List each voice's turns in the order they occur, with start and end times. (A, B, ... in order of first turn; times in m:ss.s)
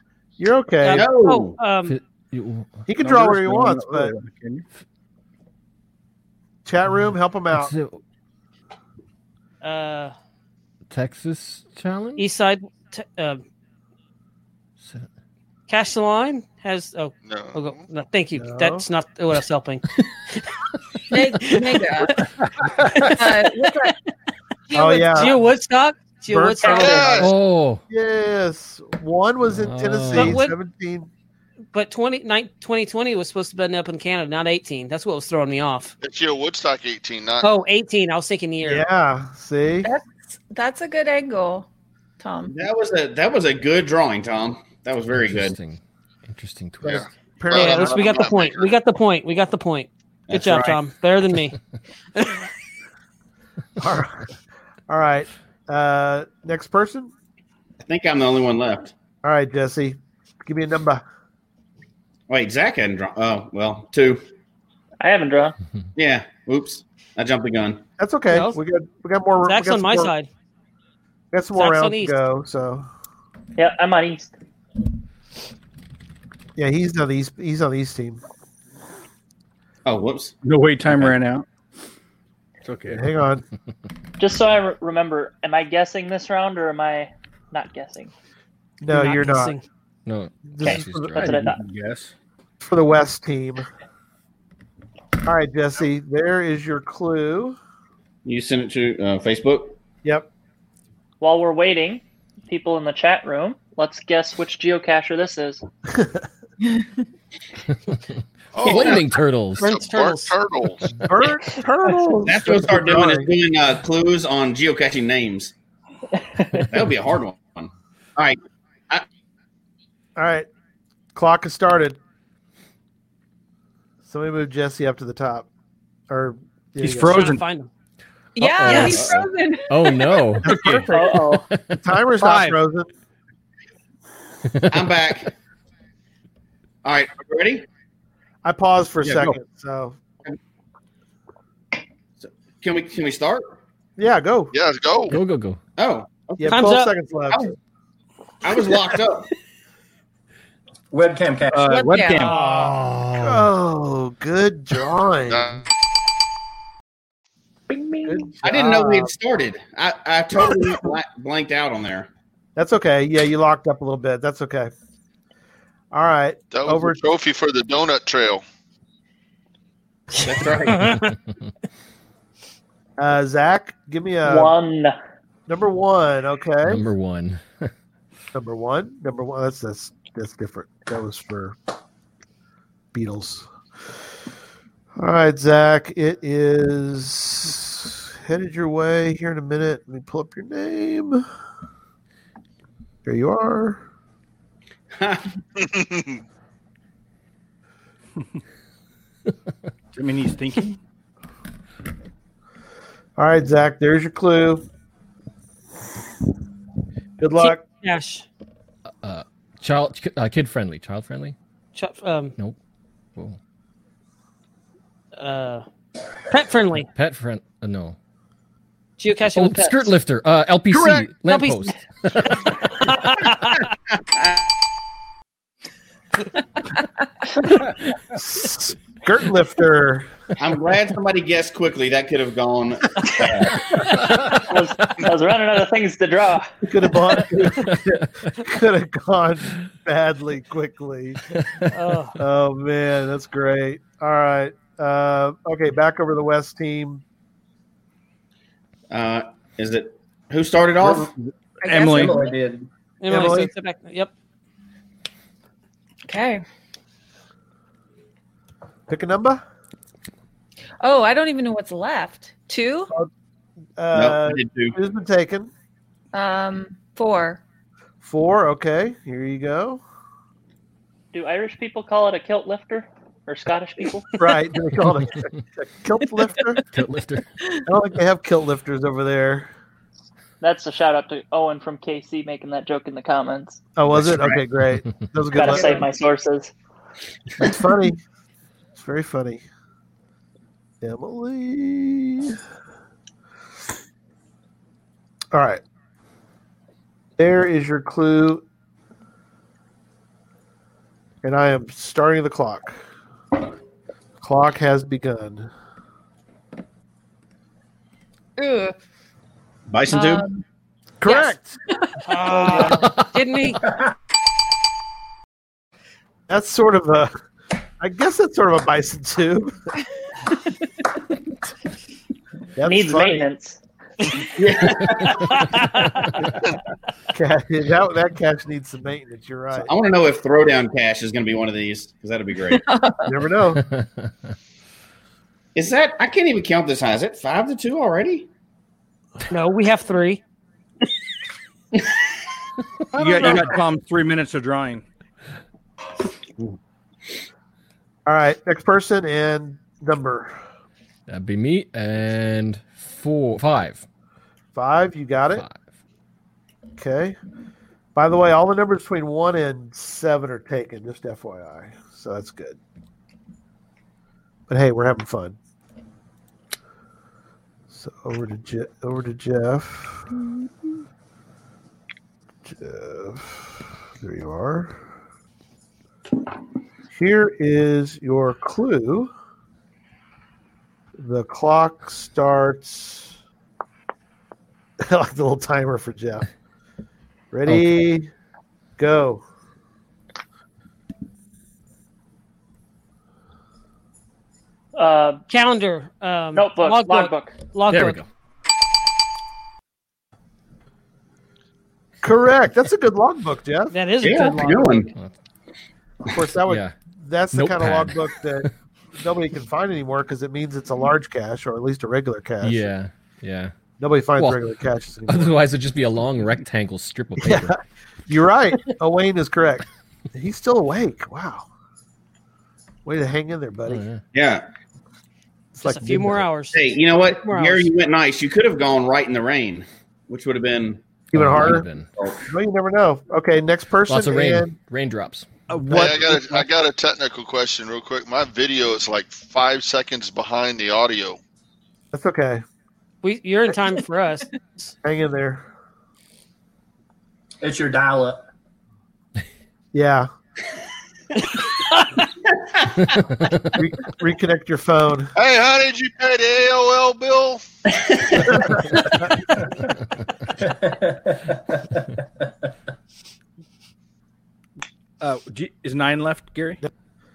0:00.4-0:01.0 A
0:00.8-0:02.0 B
0:00.9-0:01.6 C
0:01.8-0:02.8 D
0:02.9-0:04.1 A
0:03.0-0:04.6 E
0:06.6-0:07.7 A
0:06.9-0:08.0 D
0:09.6-0:10.1 B
0:10.9-0:12.2 D
0:12.2-0:13.4 B
0:14.8-0:15.1 D
0:15.7-0:20.5 B
0:17.2-0:17.8 F
0:18.4-0:18.8 A
0:21.1-0:22.2 G
0:21.4-0:21.8 B
0:22.5-0:23.1 E
0:23.0-0:23.9 B
0:23.1-0:24.0 G
0:24.7-0:25.4 G
0:24.7-0:25.4 A
0:25.1-0:27.1 B
0:26.3-0:27.3 A
0:26.7-0:27.3 F
0:27.2-0:27.8 D
0:27.9-0:31.1 A
0:29.5-0:30.4 D
0:30.1-0:30.5 B
0:31.7-0:35.9 B
0:36.0-0:37.4 F
0:37.4-0:38.8 B
0:38.6-0:39.9 A
0:39.8-0:41.7 G
0:42.2-0:42.5 G
0:42.5-0:45.6 C
0:45.2-0:47.0 D
0:46.8-0:48.1 A
0:46.8-0:48.7 F
0:47.5-0:51.6 B
0:50.3-0:50.8 C
0:52.1-0:52.5 B
0:53.8-0:54.3 A
0:54.9-0:57.1 A
0:57.8-0:58.9 C
0:59.2-1:01.0 A
1:02.3-1:04.2 C
1:05.0-1:05.6 H
1:06.0-1:07.8 C
1:08.0-1:10.1 A
1:08.3-1:08.6 B
1:09.4-1:10.3 B
1:11.3-1:12.9 A
1:11.6-1:12.2 B
1:13.6-1:14.3 H
1:16.6-1:18.2 A
1:19.8-1:20.4 C
1:20.4-1:21.4 E
1:22.6-1:23.0 E
1:22.9-1:23.4 A
1:24.2-1:28.1 H
1:28.8-1:29.5 A
1:28.9-1:29.6 B
1:30.0-1:31.4 D
1:30.5-1:31.3 A
1:30.6-1:31.6 H
1:31.2-1:32.1 E
1:32.6-1:33.6 A
1:35.2-1:37.6 A
1:38.2-1:39.8 C
1:41.2-1:45.6 H
1:45.9-1:46.2 A
1:48.5-1:49.0 F
1:48.6-1:49.7 D
1:48.6-1:49.0 C
1:49.6-1:50.9 F
1:49.6-1:50.4 B
1:51.0-1:53.3 A
1:52.2-1:55.5 C
1:56.4-1:56.6 H
1:56.7-1:59.0 C
2:00.2-2:00.5 A
2:01.1-2:02.0 A
2:04.0-2:05.5 A
2:06.1-2:07.3 A
2:06.8-2:07.4 E
2:07.1-2:07.7 B
2:08.4-2:10.2 G
2:08.4-2:10.8 D
2:08.8-2:09.3 C
2:10.4-2:12.9 A
2:10.5-2:10.8 E
2:10.9-2:11.5 H
2:12.2-2:12.6 E
2:14.5-2:15.0 D
2:14.7-2:15.3 C
2:16.8-2:17.6 C
2:18.4-2:20.0 A
2:22.2-2:23.6 C
2:24.0-2:24.5 A
2:24.5-2:25.2 F
2:25.1-2:25.6 D
2:25.8-2:26.6 C
2:26.4-2:27.5 A
2:26.5-2:26.9 B
2:28.4-2:29.3 C
2:30.9-2:31.8 I
2:31.5-2:32.4 E
2:31.7-2:32.4 G
2:32.2-2:35.6 A
2:32.9-2:33.4 D
2:35.3-2:35.6 F
2:38.0-2:39.1 A
2:38.4-2:42.1 C
2:42.6-2:44.7 A
2:45.9-2:47.0 A
2:46.5-2:48.4 F
2:50.2-2:51.0 C
2:50.7-2:51.1 B
2:53.0-2:54.5 A
2:54.2-2:55.0 H
2:55.5-2:56.8 A
2:56.6-2:57.7 D
2:58.3-3:01.6 A
3:02.9-3:03.5 A
3:05.0-3:11.2 A
3:13.0-3:13.8 A
3:14.9-3:15.3 C
3:15.6-3:16.2 F
3:19.9-3:20.8 E
3:23.2-3:24.6 A
3:27.2-3:27.6 A
3:27.4-3:28.2 B
3:28.9-3:31.4 D
3:31.7-3:32.3 B
3:35.2-3:35.6 B
3:36.3-3:36.9 B
3:36.9-3:38.0 D
3:39.0-3:39.9 B
3:39.3-3:42.5 D
3:41.2-3:43.6 B
3:44.1-3:44.4 C
3:48.1-3:50.1 A
3:50.4-3:53.8 C
3:54.3-3:56.5 H
3:56.6-4:01.2 A
3:57.7-3:58.0 D
4:01.7-4:02.2 B
4:02.2-4:07.0 A
4:08.9-4:11.1 C
4:11.2-4:12.2 E
4:11.7-4:12.7 I
4:12.0-4:12.3 G
4:13.0-4:14.1 B
4:13.1-4:13.5 A
4:16.0-4:16.4 G
4:18.9-4:19.4 A
4:20.8-4:22.9 G
4:23.8-4:25.5 A
4:23.9-4:24.8 C
4:26.1-4:27.4 G
4:28.0-4:29.8 A
4:31.1-4:34.1 H
4:34.2-4:36.6 A
4:36.7-4:37.2 D
4:37.6-4:39.5 A
4:40.4-4:43.6 H
4:43.8-4:45.8 A
4:44.1-4:44.4 C
4:45.3-4:46.5 H
4:47.4-4:48.0 A
4:48.8-4:49.4 A
4:50.8-4:52.4 A
4:55.3-4:55.6 A
4:57.2-4:58.4 A
5:01.2-5:02.8 A
5:04.2-5:05.5 A
5:08.4-5:08.8 G
5:09.7-5:10.2 C
5:09.9-5:10.4 G
5:11.0-5:11.6 A
5:11.0-5:12.8 G
5:12.1-5:13.6 B
5:12.6-5:13.2 D
5:16.3-5:17.1 A
5:17.8-5:19.6 A
5:22.6-5:23.3 A
5:22.6-5:23.6 H
5:24.4-5:25.4 C
5:25.3-5:26.1 B
5:27.1-5:29.7 A
5:29.6-5:32.6 C
5:32.5-5:33.2 G
5:33.0-5:33.6 A
5:33.6-5:34.1 D
5:35.5-5:38.3 C
5:39.3-5:40.2 B
5:42.9-5:43.5 A
5:42.9-5:44.8 E
5:48.0-5:50.4 A
5:51.1-5:53.8 D
5:54.5-5:55.4 A
5:55.3-5:55.6 D
5:56.8-5:57.2 A
5:57.9-6:02.6 A
6:04.5-6:05.4 A
6:07.7-6:10.1 A
6:12.4-6:14.8 A
6:16.9-6:19.1 A
6:21.0-6:23.1 A
6:24.8-6:26.3 A
6:27.3-6:28.1 A
6:28.8-6:29.2 A
6:34.7-6:35.2 H
6:35.3-6:38.0 B
6:36.3-6:37.4 H
6:37.7-6:38.1 D
6:42.0-6:43.7 A
6:43.7-6:44.8 B
6:44.0-6:44.9 C
6:46.0-6:52.7 A
6:46.4-6:46.7 D
6:47.3-6:48.5 D
6:52.4-6:53.5 D
6:53.8-6:55.4 A
6:54.2-6:54.4 D
6:55.1-6:57.5 D
6:57.2-6:57.6 A
6:58.1-7:01.5 A
7:02.8-7:03.8 A
7:03.7-7:04.0 D
7:04.1-7:04.4 C
7:05.5-7:06.2 A
7:05.6-7:07.7 B
7:06.5-7:10.8 C
7:11.1-7:11.6 A
7:11.1-7:11.9 D
7:11.4-7:12.2 C
7:12.3-7:14.6 A
7:13.9-7:15.3 D
7:15.5-7:16.5 E
7:15.7-7:21.2 F
7:21.9-7:22.4 A
7:23.0-7:24.7 B
7:24.8-7:25.4 A
7:27.4-7:28.2 I
7:29.7-7:30.1 A
7:33.5-7:35.1 A
7:35.2-7:37.4 F
7:40.4-7:41.8 I
7:45.0-7:46.6 E